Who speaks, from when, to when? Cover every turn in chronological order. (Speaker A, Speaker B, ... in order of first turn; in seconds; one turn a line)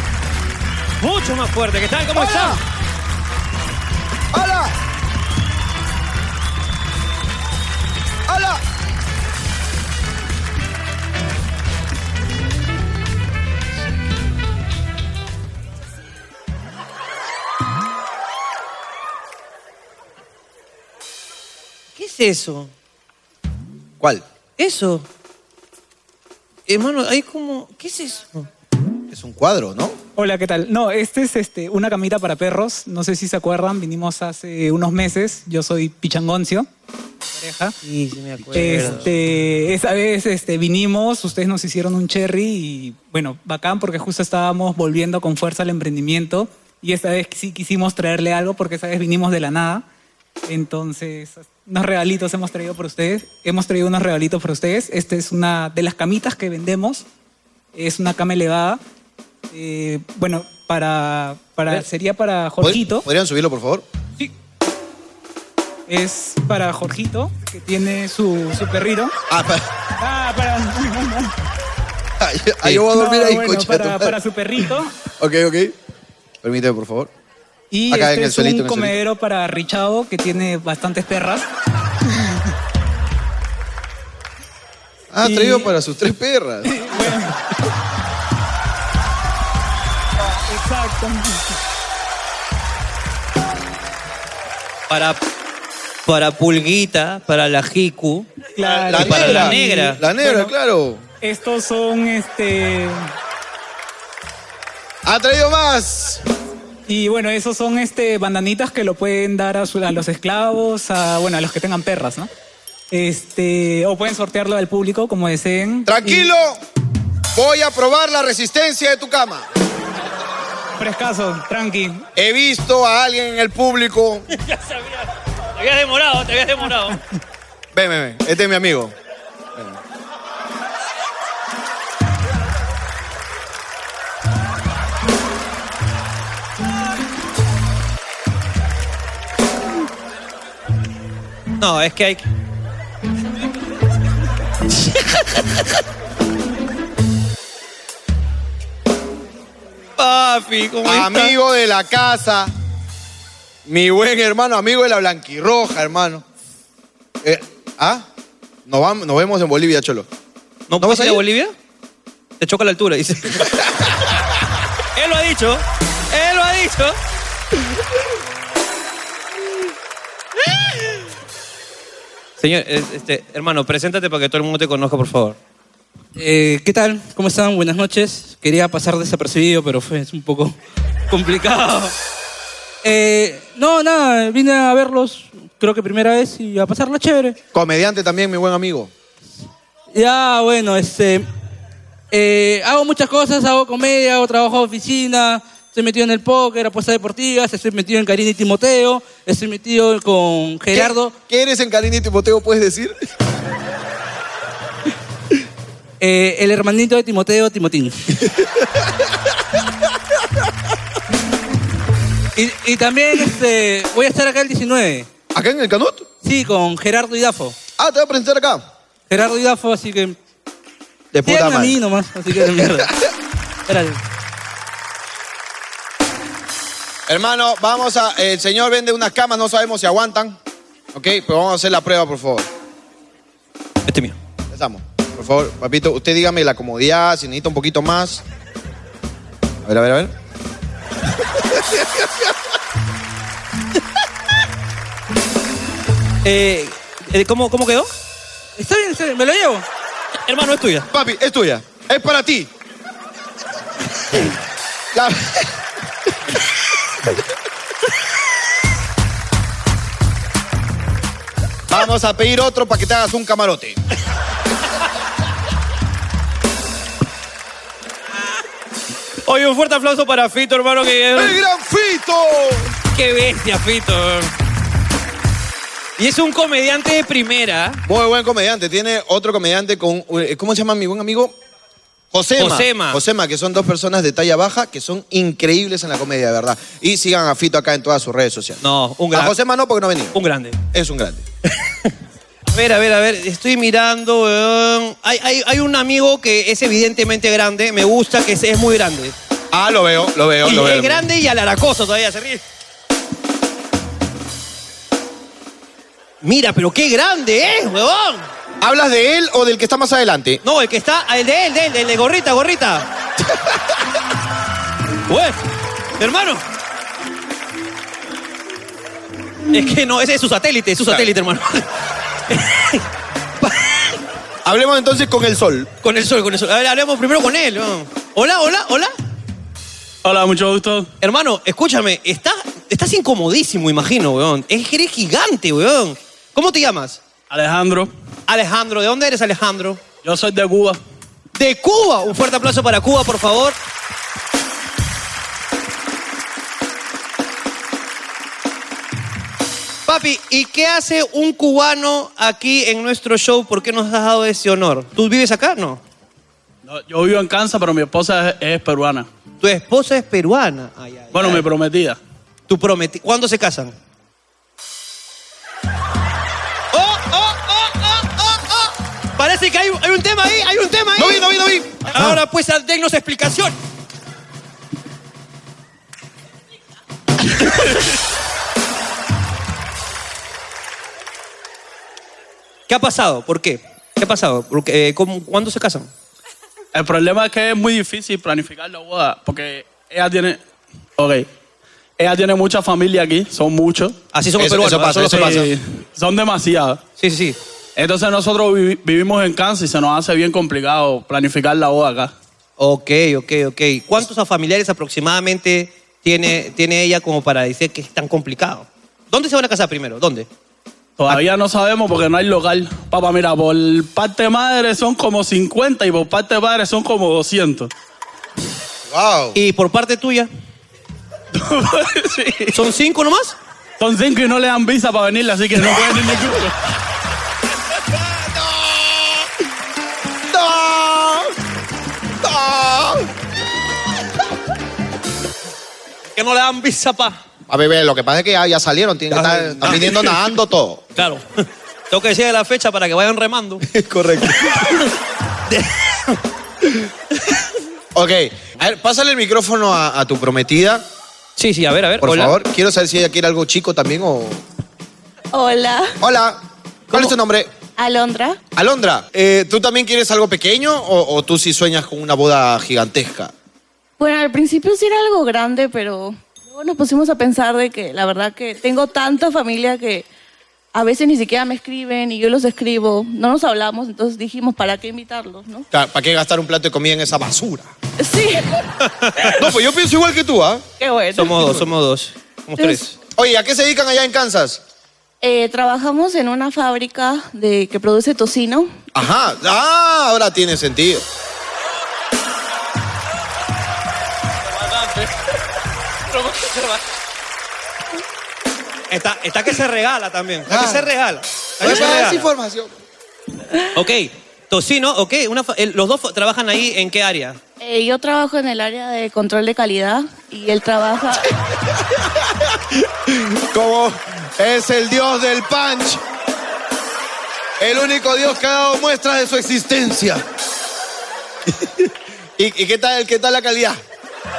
Speaker A: 1.0-2.6
Speaker B: 2.1-2.6
Speaker B: 4.3-4.7
Speaker B: 8.3-8.6
Speaker A: 21.9-22.7
Speaker A: 24.6-25.1
Speaker A: 26.7-28.4
Speaker B: 29.1-30.0
Speaker C: 30.1-36.7
Speaker C: 37.4-37.7
Speaker A: 37.8-39.1
Speaker C: 38.5-49.8
Speaker C: 50.5-57.0
Speaker C: 57.7-58.8
Speaker C: 59.5-63.1
Speaker B: 62.6-63.8
Speaker C: 65.9-69.1
Speaker B: 69.3-69.7
Speaker C: 70.0-71.3
Speaker B: 72.2-74.1
Speaker C: 72.6-74.9
Speaker B: 75.2-75.7
Speaker B: 76.4-77.1
Speaker C: 77.7-81.5
Speaker B: 77.9-79.0
Speaker B: 85.1-86.8
Speaker C: 86.6-87.4
Speaker C: 90.5-91.4
Speaker A: 94.9-95.2
Speaker A: 96.0-100.0
Speaker C: 98.5-100.5
Speaker B: 98.7-101.0
Speaker C: 101.2-103.1
Speaker B: 105.0-106.2
Speaker C: 106.9-112.3
Speaker C: 112.9-116.3
Speaker B: 115.8-116.6
Speaker B: 117.3-119.5
Speaker C: 120.8-122.0
Speaker B: 122.2-124.2
Speaker A: 124.3-127.0
Speaker B: 127.7-128.9
Speaker A: 141.6-142.3
Speaker A: 150.0-151.3
Speaker B: 150.8-152.5
Speaker B: 153.6-156.2
Speaker B: 157.2-158.1
Speaker B: 158.7-160.1
Speaker A: 160.7-161.5
Speaker B: 160.8-161.2
Speaker A: 162.4-163.6
Speaker A: 164.9-167.0
Speaker A: 172.4-175.4
Speaker D: 176.1-180.6
Speaker D: 181.1-181.9
Speaker D: 182.8-187.4
Speaker B: 187.5-188.9
Speaker D: 189.9-191.3
Speaker D: 192.1-201.2
Speaker B: 200.7-203.0
Speaker D: 206.0-208.0
Speaker B: 208.2-208.9
Speaker D: 212.3-215.1
Speaker B: 215.3-216.1
Speaker D: 216.2-217.6
Speaker B: 217.8-218.6
Speaker D: 219.1-220.2
Speaker B: 221.1-221.8
Speaker D: 221.2-222.9
Speaker D: 223.7-224.0
Speaker B: 227.1-230.4
Speaker B: 230.9-232.5
Speaker A: 233.8-234.2
Speaker B: 234.5-238.2
Speaker B: 239.6-240.1
Speaker A: 246.2-247.9
Speaker D: 248.6-249.6
Speaker A: 250.3-250.9
Speaker B: 250.9-252.5
Speaker B: 254.9-255.5
Speaker B: 261.7-263.8
Speaker A: 269.2-271.4
Speaker B: 271.1-272.7
Speaker A: 272.9-274.3
Speaker A: 276.0-277.8
Speaker B: 277.8-281.3
Speaker B: 282.1-290.2
Speaker A: 282.4-283.0
Speaker A: 288.6-289.3
Speaker A: 290.1-290.6
Speaker B: 290.7-291.2
Speaker A: 292.5-299.1
Speaker B: 299.5-301.1
Speaker A: 300.4-302.4
Speaker A: 306.2-308.2
Speaker B: 308.6-310.4
Speaker A: 310.4-312.9
Speaker A: 315.1-315.4
Speaker A: 316.0-316.4
Speaker A: 319.5-321.6
Speaker B: 320.8-321.1
Speaker A: 322.3-322.8
Speaker A: 323.4-324.0
Speaker B: 324.4-325.7
Speaker A: 325.8-328.9
Speaker E: 330.0-330.9
Speaker A: 331.0-337.0
Speaker E: 337.3-337.9
Speaker A: 338.3-339.8
Speaker E: 340.0-340.8
Speaker A: 341.3-343.6
Speaker A: 349.9-355.8
Speaker E: 356.6-359.1
Speaker A: 359.4-361.4
Speaker E: 361.1-362.0
Speaker A: 362.5-363.7
Speaker A: 366.7-371.3
Speaker B: 370.9-372.2
Speaker A: 371.9-373.5
Speaker A: 382.7-385.9
Speaker E: 386.7-390.4
Speaker E: 391.0-391.3
Speaker E: 392.0-393.9
Speaker A: 394.1-395.4
Speaker B: 394.4-395.5
Speaker E: 395.1-396.8
Speaker A: 397.0-397.4
Speaker E: 397.8-402.1
Speaker A: 402.6-410.3
Speaker E: 411.0-417.7
Speaker B: 418.9-419.4
Speaker A: 419.3-420.3
Speaker E: 421.3-422.5
Speaker A: 422.5-423.4
Speaker E: 423.8-426.5
Speaker B: 428.1-429.3
Speaker B: 430.3-431.3
Speaker B: 432.2-433.1
Speaker A: 436.1-437.2
Speaker B: 437.5-440.9
Speaker A: 439.1-440.3
Speaker A: 440.9-443.6
Speaker B: 443.7-444.8
Speaker A: 445.5-446.2
Speaker B: 447.9-450.8
Speaker A: 451.4-452.4
Speaker B: 452.0-454.4
Speaker F: 455.3-456.0
Speaker B: 456.0-457.5
Speaker A: 456.9-457.1
Speaker F: 457.8-458.4
Speaker B: 458.5-463.3
Speaker F: 464.0-470.1
Speaker F: 470.7-475.6
Speaker B: 475.7-477.7
Speaker F: 478.0-478.6
Speaker A: 478.8-479.5
Speaker B: 479.3-480.6
Speaker F: 480.8-481.7
Speaker A: 481.1-482.9
Speaker F: 482.6-482.8
Speaker B: 483.1-484.6
Speaker F: 485.2-488.7
Speaker B: 488.9-491.0
Speaker A: 498.9-502.3
Speaker B: 500.5-500.9
Speaker B: 501.6-502.7
Speaker A: 503.7-507.4
Speaker F: 507.6-511.4
Speaker B: 512.0-512.5
Speaker B: 513.1-516.0
Speaker B: 517.6-520.2
Speaker B: 521.5-523.8